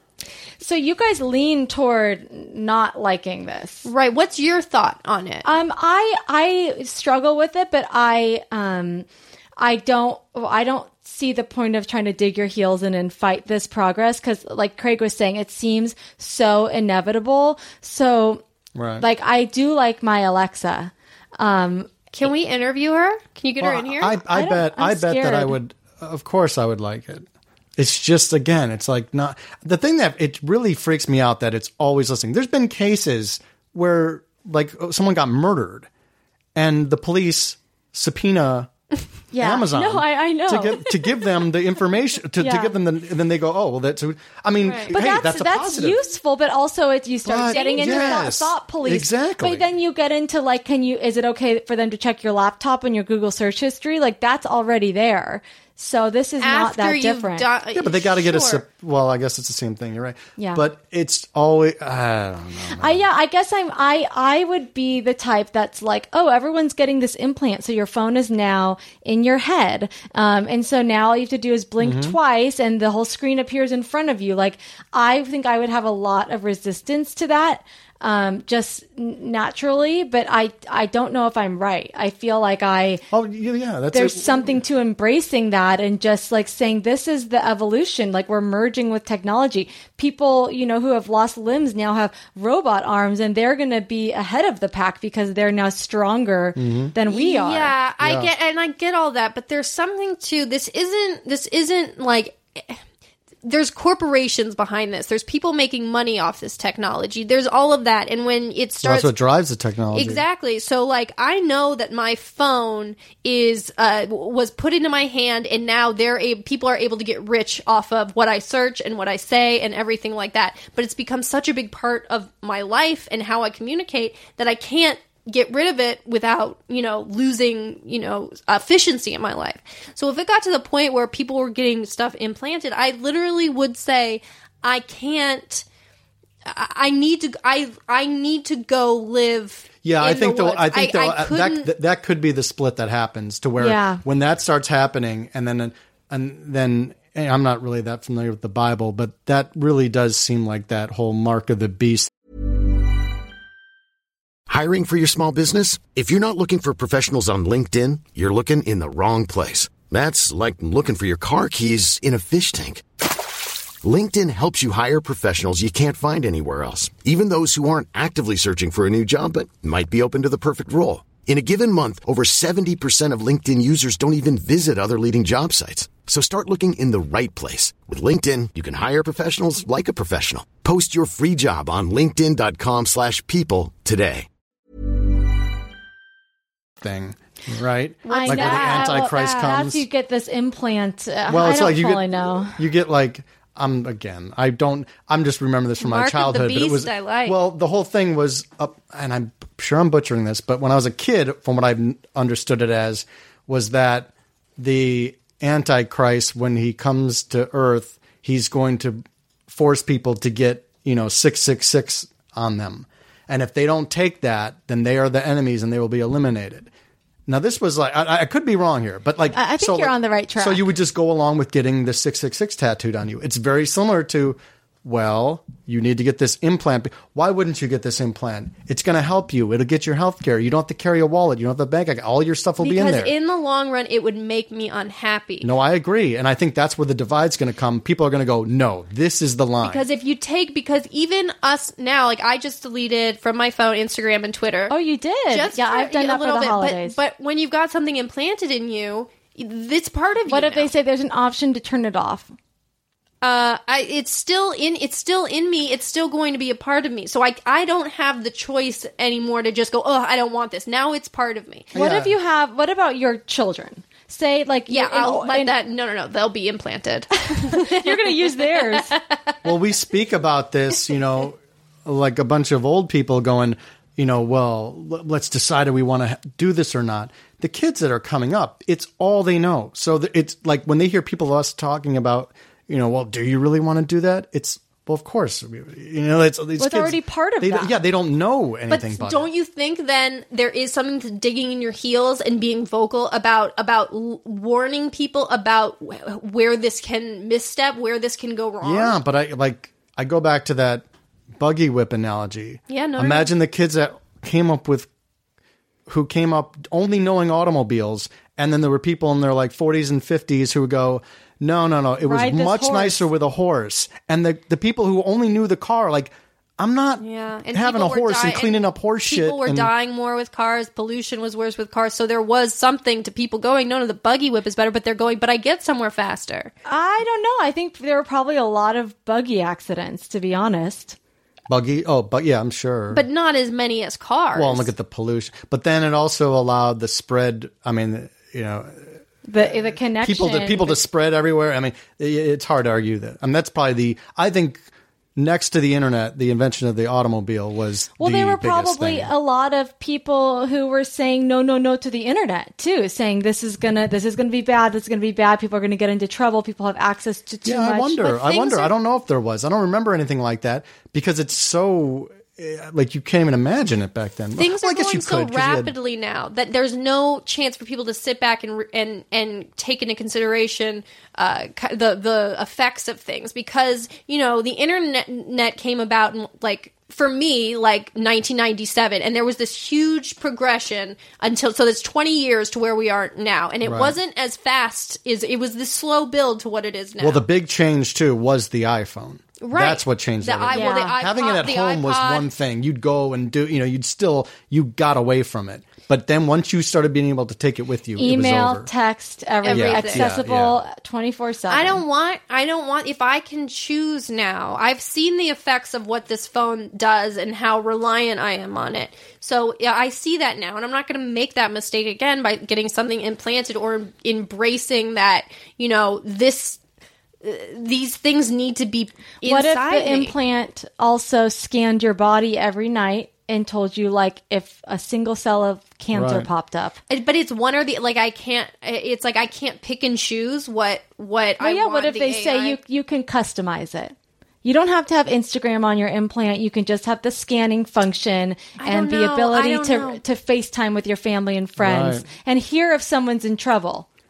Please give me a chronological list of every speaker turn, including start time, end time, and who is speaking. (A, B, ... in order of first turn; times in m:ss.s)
0:00.6-0:03.9 A
0:03.8-0:05.5 B
0:05.4-0:09.0 A
0:09.6-0:18.4 A
0:18.7-0:19.0 C
0:19.0-0:21.9 A
0:22.1-0:24.2 B
0:23.6-0:27.2 C
0:24.3-0:25.6 A
0:27.8-0:35.9 C
0:36.5-0:38.7 C
0:39.3-0:41.2 A
0:39.4-0:46.0 C
0:42.4-0:42.7 A
0:44.6-0:44.9 B
0:44.9-0:57.4 A
0:47.2-0:49.7 C
0:47.5-0:48.3 B
0:56.4-0:58.6 B
0:57.7-1:03.0 C
1:00.4-1:00.6 A
1:02.8-1:23.0 A
1:11.8-1:12.2 C
1:23.1-1:24.6 C
1:23.9-1:37.7 A
1:36.6-1:36.9 C
1:37.1-1:42.8 B
1:38.0-1:38.3 C
1:43.4-1:49.1 B
1:48.8-1:50.2 C
1:49.9-2:15.6 B
2:16.4-2:21.7 B
2:19.8-2:32.1 C
2:23.6-2:24.0 A
2:34.5-2:42.8 D
2:43.8-3:04.2 D
3:06.8-3:09.8 C
3:08.0-3:09.6 B
3:08.1-3:12.6 A
3:11.3-3:36.7 C
3:15.8-3:17.4 B
3:37.3-3:53.1 C
3:39.3-3:40.6 A
3:52.6-3:55.5 B
3:55.4-3:59.8 C
3:59.6-4:04.7 B
4:04.7-4:07.0 A
4:05.3-4:10.7 B
4:10.2-4:12.3 A
4:13.2-4:21.7 B
4:21.7-4:22.1 C
4:21.7-4:25.5 A
4:24.7-4:29.4 B
4:27.4-4:28.9 A
4:29.4-4:49.3 C
4:46.6-4:47.7 A
4:48.7-4:59.0 B
4:58.6-5:00.8 C
5:01.4-5:04.9 C
5:02.7-5:03.3 B
5:05.9-5:19.7 C
5:12.1-5:13.0 A
5:17.0-5:26.5 B
5:26.6-5:31.0 A
5:31.5-5:33.0 C
5:32.9-5:34.7 B
5:34.3-5:38.9 C
5:39.2-5:40.8 A
5:39.4-5:44.6 C
5:45.2-5:49.1 C
5:48.0-5:58.6 A
5:57.4-6:05.7 C
6:04.4-6:27.2 B
6:23.6-6:24.0 C
6:27.0-6:38.7 C
6:29.4-6:32.3 B
6:30.5-6:30.9 A
6:38.0-6:41.8 A
6:39.4-6:40.1 B
6:39.5-6:40.6 C
6:41.5-6:56.6 B
6:57.2-7:00.1 B
6:59.2-7:06.8 A
7:05.9-7:06.3 C
7:06.9-7:12.6 B
7:11.4-7:23.9 A
7:18.6-7:20.0 B
7:21.6-7:22.0 C